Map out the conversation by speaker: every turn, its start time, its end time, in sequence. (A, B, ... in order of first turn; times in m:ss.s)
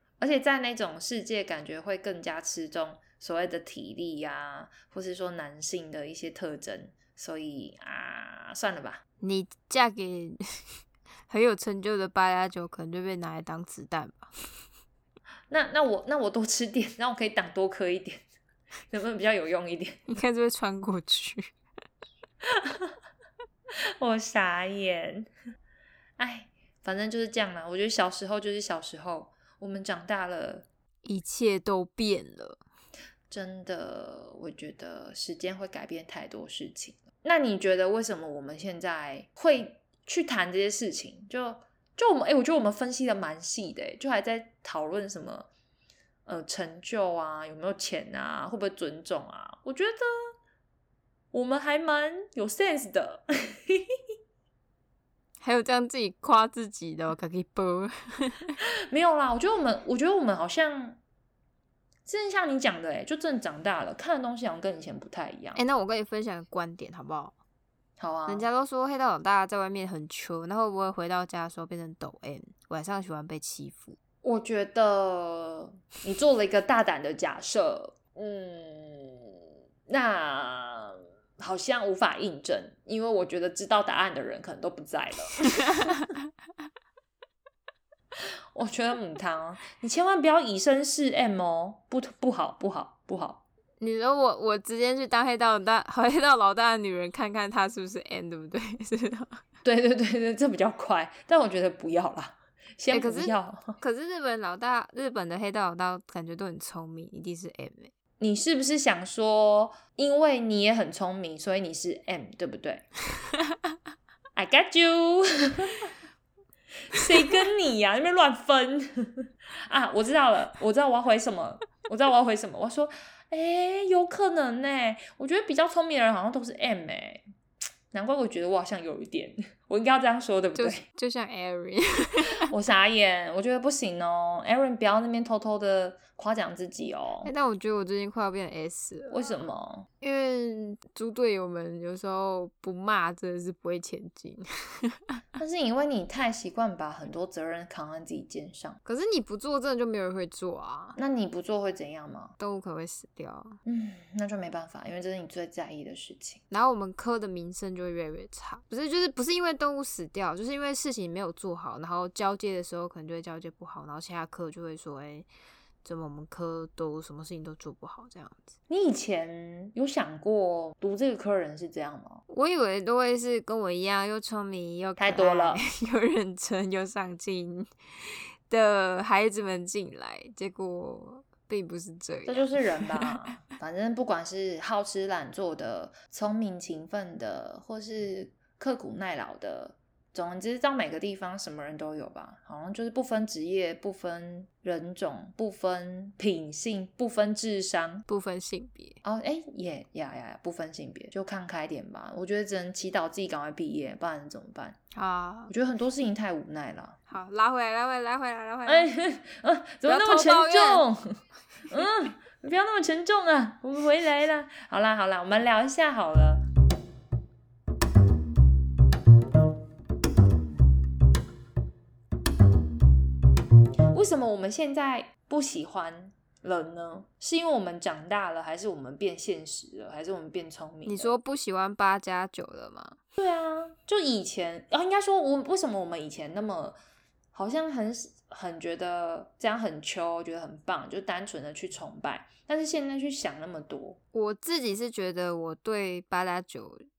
0:00.2-0:09.0 A
0:09.2-0:14.3 B
0:15.5-0:18.2 A
0:18.9-0:20.1 A
0:20.1-0:21.5 B
0:22.4-0:22.9 A
0:24.0-0:25.3 A
0:26.2-0:30.6 A
0:31.0-0:32.6 B
0:33.3-0:45.5 A
0:46.2-0:50.3 A
0:51.3-0:53.8 A
0:55.4-0:58.6 B
0:58.9-1:01.0 A
1:02.0-1:05.6 A
1:05.5-1:07.3 B
1:08.0-1:08.4 A
1:08.3-1:14.0 B
1:14.2-1:19.3 A
1:19.9-1:26.0 A
1:28.5-1:33.4 A
1:33.8-1:39.4 B
1:39.6-1:43.8 A
1:42.9-1:47.9 B
1:48.2-1:52.9 A
1:54.3-1:55.8 A
1:56.9-2:07.2 A
2:07.9-2:10.8 A
2:10.5-2:12.5 B
2:12.5-2:17.3 A
2:17.2-2:19.3 B
2:19.1-2:19.9 A
2:20.0-2:25.2 B
2:25.4-2:28.8 A
2:28.8-2:31.0 B
2:31.0-2:32.3 A
2:32.4-2:33.6 B
2:33.6-2:36.4 A
2:36.5-2:45.3 B
2:45.8-2:48.5 B
2:48.7-2:52.2 A
2:52.3-3:03.2 B
2:55.0-2:55.6 A
3:02.3-3:18.0 A
3:18.1-3:19.0 B
3:19.0-3:24.8 A
3:24.9-3:25.5 B
3:25.5-3:27.0 A
3:27.1-3:28.9 B
3:28.6-3:36.4 A
3:29.8-3:30.8 B
3:43.9-3:51.2 A
3:50.8-3:53.0 B
3:53.2-3:56.8 A
3:57.3-4:04.0 A
4:04.1-4:06.8 B